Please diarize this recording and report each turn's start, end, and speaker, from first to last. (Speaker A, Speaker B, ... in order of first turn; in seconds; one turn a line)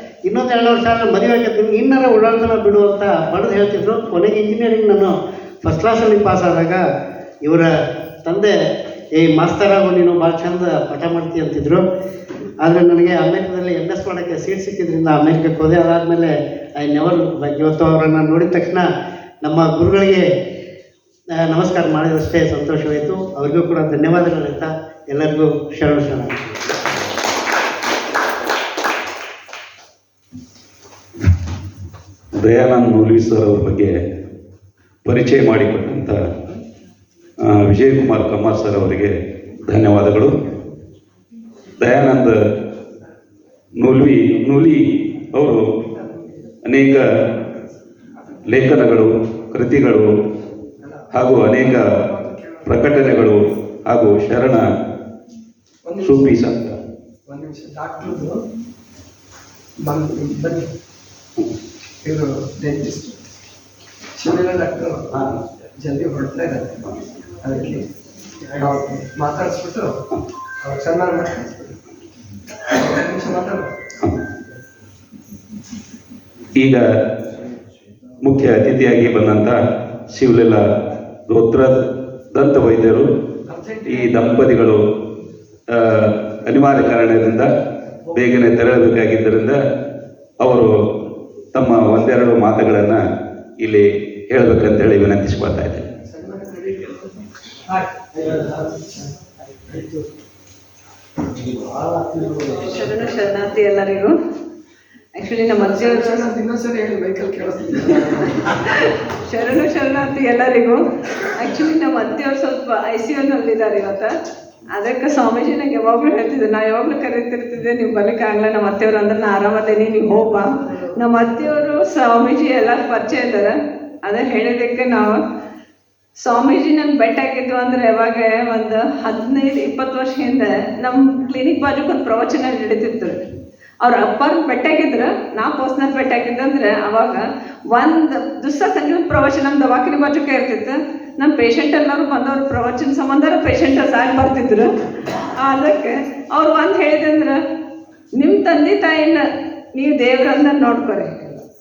Speaker A: 0.2-6.8
Speaker A: 7.4-7.7
Speaker A: 8.2-8.5
Speaker A: 9.2-11.8
Speaker A: 12.6-18.9
Speaker A: 19.4-20.3
Speaker A: 21.4-26.6
Speaker B: 32.3-34.0
Speaker B: 35.0-36.2
Speaker B: 37.4-40.4
Speaker B: 41.8-42.4
Speaker B: 43.8-45.6
Speaker B: 46.6-47.0
Speaker B: 48.5-50.1
Speaker C: 50.8-52.8
Speaker B: 51.1-51.9
Speaker B: 52.6-54.7
Speaker C: 55.9-56.4
Speaker B: 56.0-56.8
Speaker C: 57.3-58.4
Speaker C: 59.8-60.7
Speaker C: 62.0-63.2
Speaker C: 64.2-65.1
Speaker C: 65.8-66.8
Speaker C: 67.4-67.8
Speaker C: 68.6-69.9
Speaker C: 70.6-71.8
Speaker C: 72.7-73.7
Speaker B: 76.5-76.8
Speaker B: 78.2-79.6
Speaker B: 80.1-80.6
Speaker B: 81.3-81.8
Speaker B: 82.3-83.1
Speaker C: 83.5-84.1
Speaker B: 83.8-84.8
Speaker B: 85.7-87.5
Speaker B: 88.1-89.6
Speaker B: 90.4-90.7
Speaker B: 91.5-93.0
Speaker B: 93.6-95.8
Speaker C: 96.0-97.0
Speaker C: 97.7-98.9
Speaker C: 101.7-102.5
Speaker D: 102.6-104.1
Speaker D: 105.1-106.3
Speaker C: 105.6-108.5
Speaker D: 108.6-114.1
Speaker D: 114.7-125.2
Speaker D: 126.2-133.2
Speaker D: 133.8-144.7
Speaker D: 145.3-147.4
Speaker D: 148.2-149.2
Speaker D: 149.7-151.3